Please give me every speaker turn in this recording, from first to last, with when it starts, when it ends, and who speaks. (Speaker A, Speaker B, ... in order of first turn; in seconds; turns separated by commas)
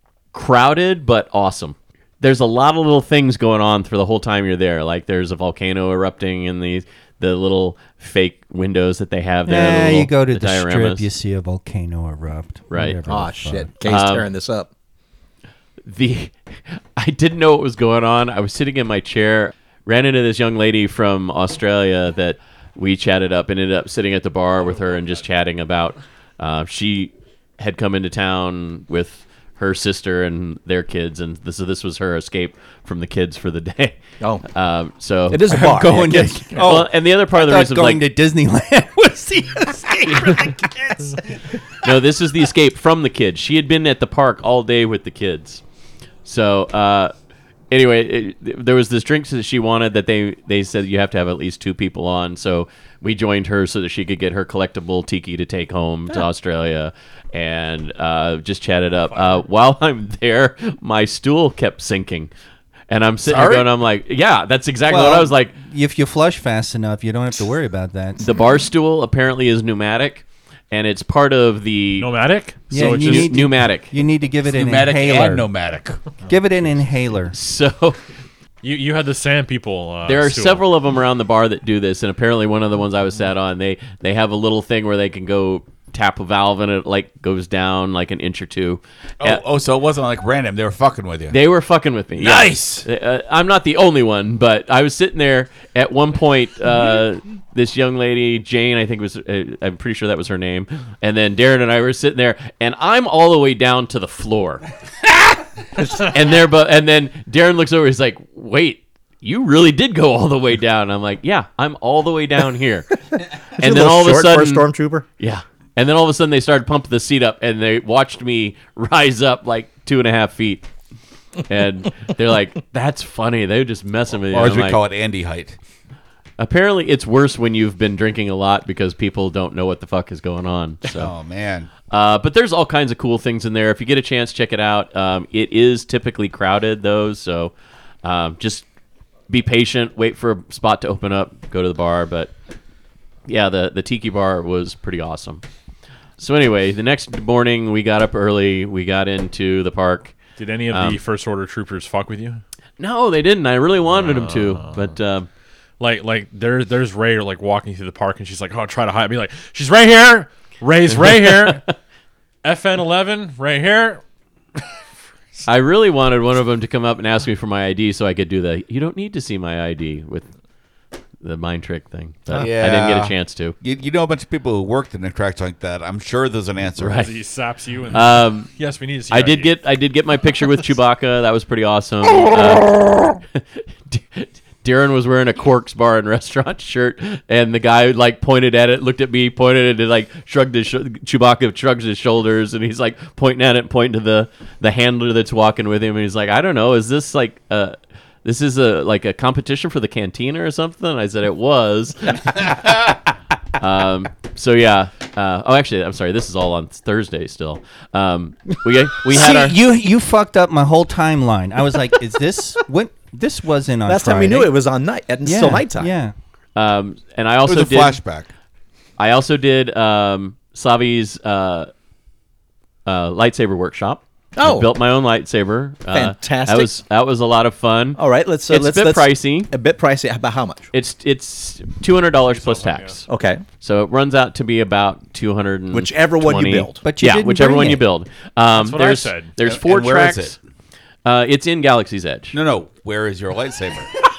Speaker A: 0.3-11.1, Speaker B: 9.5-13.7, Speaker A: 12.7-13.0, Speaker C: 13.1-14.7, Speaker A: 13.8-14.3, Speaker A: 15.8-34.0, Speaker A: 34.5-38.0, Speaker C: 35.3-36.7, Speaker B: 35.5-41.2, Speaker A: 41.8-45.6, Speaker A: 46.2-47.1, Speaker A: 47.7-62.3, Speaker D: 59.1-59.4, Speaker A: 62.9-65.5, Speaker E: 63.3-63.6, Speaker B: 64.9-68.3, Speaker A: 68.2-72.1, Speaker D: 72.0-73.5, Speaker A: 72.7-73.9, Speaker B: 72.7-75.5, Speaker E: 74.5-76.2, Speaker B: 76.3-77.3, Speaker A: 77.3-78.0, Speaker D: 78.6-80.7, Speaker A: 80.0-89.4, Speaker E: 89.2-91.4, Speaker A: 91.3-104.7, Speaker E: 92.2-92.8, Speaker A: 105.8-114.7, Speaker C: 113.6-115.0, Speaker A: 115.2-120.7, Speaker A: 121.5-124.8, Speaker E: 124.3-125.6, Speaker A: 126.4-131.1, Speaker E: 130.9-131.7, Speaker A: 131.9-137.5, Speaker A: 138.0-138.6, Speaker A: 139.3-142.3, Speaker A: 143.3-145.4, Speaker A: 146.2-150.2, Speaker D: 150.4-152.4, Speaker A: 150.7-151.0, Speaker A: 152.8-155.3, Speaker D: 153.9-154.9, Speaker D: 155.8-161.6, Speaker A: 160.9-161.7, Speaker D: 162.4-164.0, Speaker A: 165.4-170.3, Speaker A: 171.2-173.6, Speaker E: 172.3-177.1, Speaker A: 176.8-177.1, Speaker D: 176.9-179.5, Speaker A: 177.9-178.5, Speaker A: 179.1-202.9, Speaker A: 203.6-209.5, Speaker B: 209.1-214.5, Speaker C: 213.9-215.9, Speaker B: 215.2-216.1, Speaker A: 216.6-218.0, Speaker E: 217.4-218.3, Speaker A: 219.0-221.7, Speaker A: 222.8-229.5, Speaker C: 224.3-224.7, Speaker C: 225.9-226.7, Speaker C: 227.9-230.7, Speaker A: 230.7-233.1, Speaker D: 232.3-233.0, Speaker C: 233.1-233.4, Speaker A: 233.6-240.3, Speaker C: 235.7-236.8, Speaker B: 236.8-237.8, Speaker D: 238.5-239.3, Speaker E: 239.4-240.3, Speaker A: 241.0-242.4, Speaker E: 242.3-244.1